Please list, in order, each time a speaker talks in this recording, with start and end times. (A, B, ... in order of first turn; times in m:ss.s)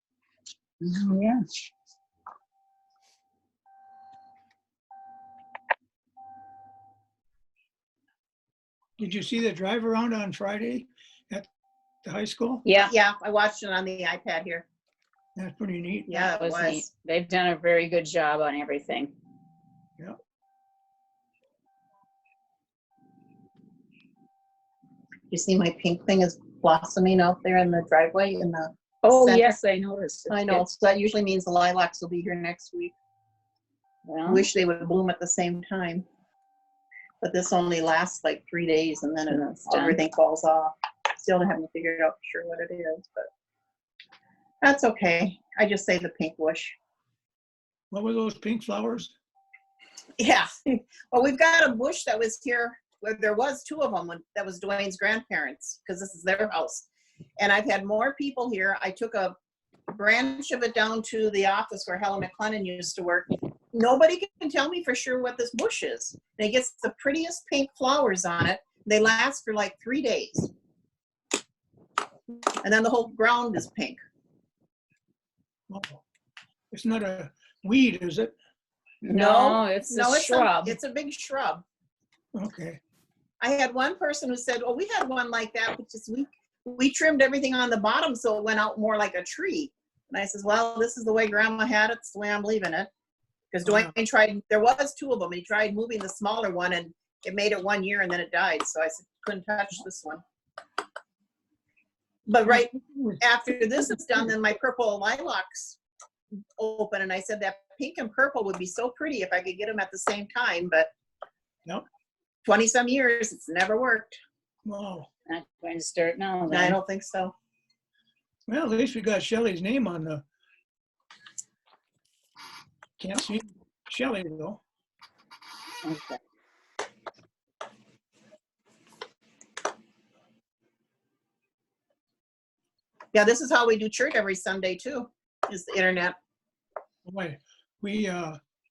0:00.8-0:01.4 A
0:09.0-0:11.5 B
0:12.0-0:12.6 B
0:12.6-0:12.9 A
0:12.7-0:14.6 C
0:15.4-0:16.1 B
0:16.1-0:16.9 C
0:16.1-0:19.1 A
0:25.3-0:29.5 C
0:29.0-0:30.6 A
0:30.3-0:32.9 C
0:34.0-0:34.5 A
0:34.3-0:36.0 C
0:37.2-0:43.3 C
0:39.3-0:40.0 A
0:44.6-0:46.8 C
0:47.9-0:49.1 B
0:50.2-0:59.3 C
0:59.9-1:10.5 C
1:12.6-1:14.0 C
1:15.7-1:16.0 B
1:16.7-1:18.3 B
1:19.0-1:21.6 C
1:19.0-1:20.8 A
1:22.3-1:22.8 B
1:23.4-1:32.9 C
1:33.5-1:40.2 C
1:42.3-1:45.8 C
1:42.5-1:43.2 B
1:46.6-1:50.9 C
1:52.4-1:54.2 C
1:54.6-1:55.1 B
1:55.3-1:56.8 A
1:56.5-1:57.3 C
1:58.5-2:00.2 B
2:03.0-2:04.6 B
2:05.8-2:06.2 A
2:13.1-2:16.2 C
2:17.0-2:18.4 B